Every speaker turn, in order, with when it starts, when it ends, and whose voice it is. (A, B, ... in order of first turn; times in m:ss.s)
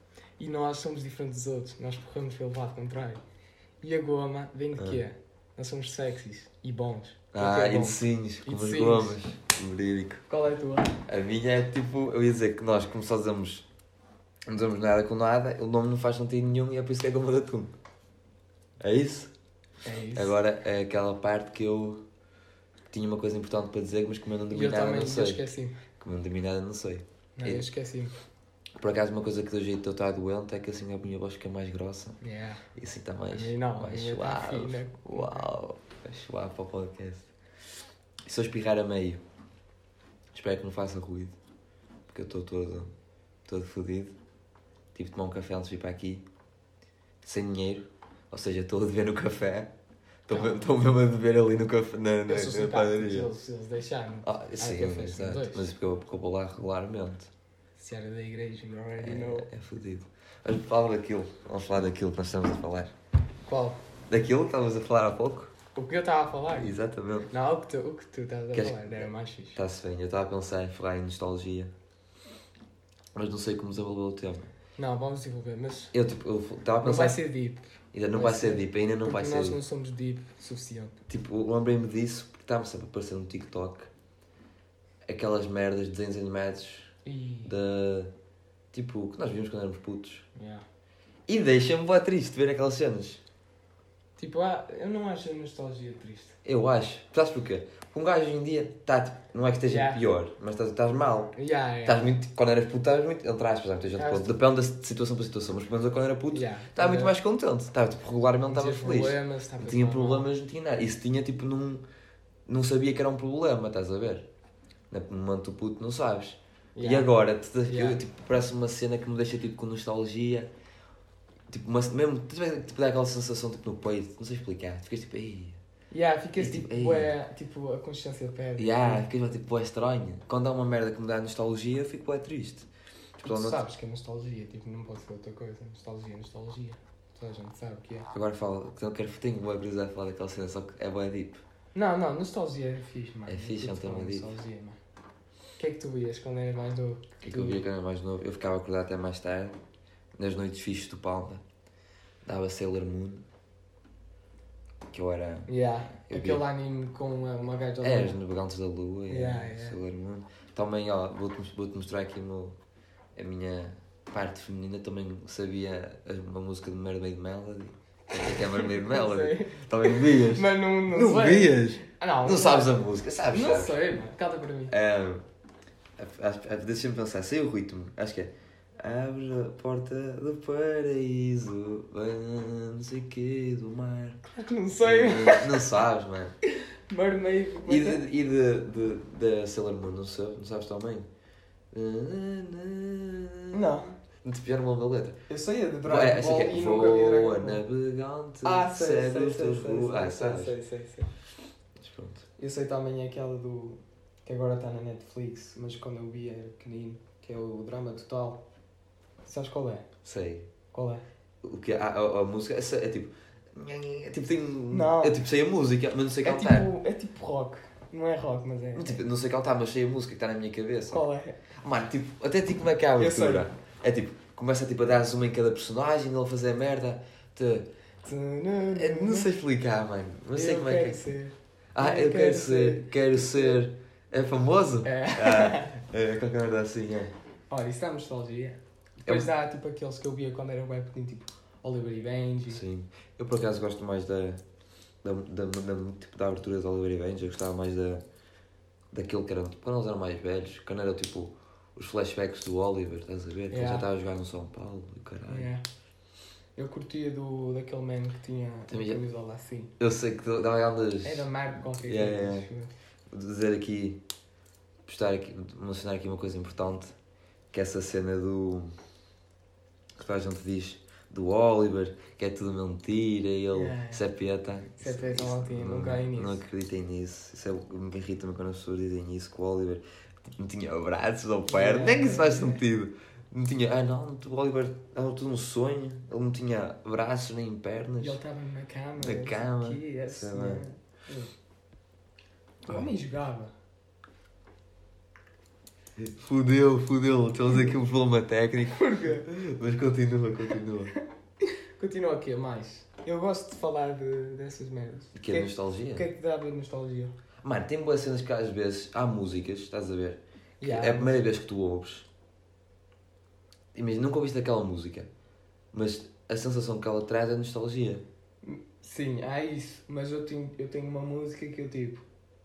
0:00.4-0:03.2 A
0:03.8-0:09.2 A
0:07.3-0:10.2 B
0:10.3-0:11.0 A
0:11.0-0:13.6 B
0:14.5-0:17.7 B
0:18.8-0:19.3 B
0:19.8-0:20.4 A
0:20.1-0:22.0 B
0:22.9-0:25.4 B
0:24.5-0:25.8 A
0:26.0-0:27.6 B
0:27.4-0:28.2 A
0:28.8-0:32.2 B
0:32.2-0:32.6 A
0:32.7-0:37.3 B
0:33.3-0:35.5 A
0:38.2-0:39.2 B
0:40.3-0:41.4 B
0:42.1-0:42.9 B
0:43.4-0:44.2 B
0:44.9-0:46.2 B
0:47.2-0:49.7 B
0:50.3-0:53.3 B
0:50.3-0:50.6 A
0:52.3-0:55.7 A
0:54.2-0:57.3 B
0:57.8-0:59.5 A
0:59.0-1:02.9 B
1:03.5-1:03.8 A
1:04.1-1:05.5 B
1:05.7-1:06.8 A
1:06.6-1:07.3 B
1:07.3-1:09.6 A
1:08.5-1:11.7 B
1:13.1-1:14.5 B
1:14.8-1:15.9 A
1:15.9-1:17.2 B
1:16.8-1:20.9 A
1:17.9-1:19.6 B
1:21.1-1:23.9 B
1:25.0-1:28.1 B
1:27.0-1:27.5 A
1:28.7-1:30.3 B
1:30.4-1:30.6 A
1:31.3-1:33.2 B
1:34.2-1:36.4 A
1:36.4-1:51.8 B
1:39.7-1:40.0 A
1:41.4-1:42.1 A
1:44.0-1:44.3 A
1:46.3-1:47.1 A
1:48.5-1:50.3 A
1:52.5-1:54.3 B
1:54.9-2:00.5 B
1:56.7-1:57.1 A
1:57.6-1:58.0 A
2:01.5-2:05.6 B
2:05.9-2:09.0 A
2:06.4-2:07.1 B
2:08.6-2:12.7 B
2:13.2-2:13.6 B
2:13.2-2:18.1 A
2:18.1-2:21.4 B
2:21.7-2:24.8 A
2:23.2-2:24.3 B
2:25.6-2:27.6 A
2:27.2-2:29.6 B
2:30.2-2:31.4 B
2:32.2-2:33.2 B
2:34.9-2:35.5 B
2:35.5-2:38.2 A
2:36.0-2:36.4 B
2:37.8-2:42.6 B
2:39.1-2:39.8 A
2:43.1-2:53.8 B
2:48.1-2:52.8 A
2:53.3-2:54.7 A
2:54.7-2:55.2 B
2:56.0-3:04.2 B
3:04.2-3:05.7 A
3:04.8-3:06.3 B
3:06.9-3:08.0 A
3:07.6-3:11.1 B
3:11.7-3:13.7 B
3:13.5-3:13.9 A
3:14.2-3:15.2 B
3:15.3-3:17.6 A
3:15.8-3:20.5 B
3:18.4-3:21.1 A
3:21.8-3:22.2 B
3:22.4-3:28.4 A
3:29.2-3:29.9 A
3:30.0-3:30.5 B
3:30.7-3:31.0 A
3:31.4-3:36.7 B
3:34.7-3:35.2 A
3:36.2-3:39.0 A
3:38.7-3:41.0 B
3:40.9-3:41.4 A
3:41.6-3:47.7 B
3:43.0-3:43.5 A
3:48.0-3:49.3 A
3:48.7-3:51.0 B
3:50.3-3:53.6 A
3:51.7-3:57.1 B
3:54.8-3:55.8 A
3:57.5-4:02.6 A
4:02.5-4:04.4 B
4:05.0-4:08.0 B
4:08.9-4:15.5 B
4:13.5-4:13.9 A
4:15.3-4:15.6 A
4:16.6-4:19.7 A
4:18.7-4:19.0 B
4:19.8-4:22.5 B
4:21.0-4:22.7 A
4:23.1-4:24.0 B
4:24.8-4:26.9 B
4:27.5-4:28.8 B
4:30.0-4:48.2 B
4:33.5-4:34.1 A
4:34.7-4:36.4 A
4:41.5-4:42.6 A
4:48.0-4:51.3 A
4:49.0-4:50.6 B
4:52.6-4:53.5 A
4:56.0-5:00.9 B
4:58.7-4:59.3 A
5:01.8-5:07.1 A
5:05.1-5:06.0 B
5:07.4-5:12.1 B
5:10.6-5:11.3 A
5:13.7-5:15.1 B
5:15.7-5:18.0 B
5:18.4-5:22.0 A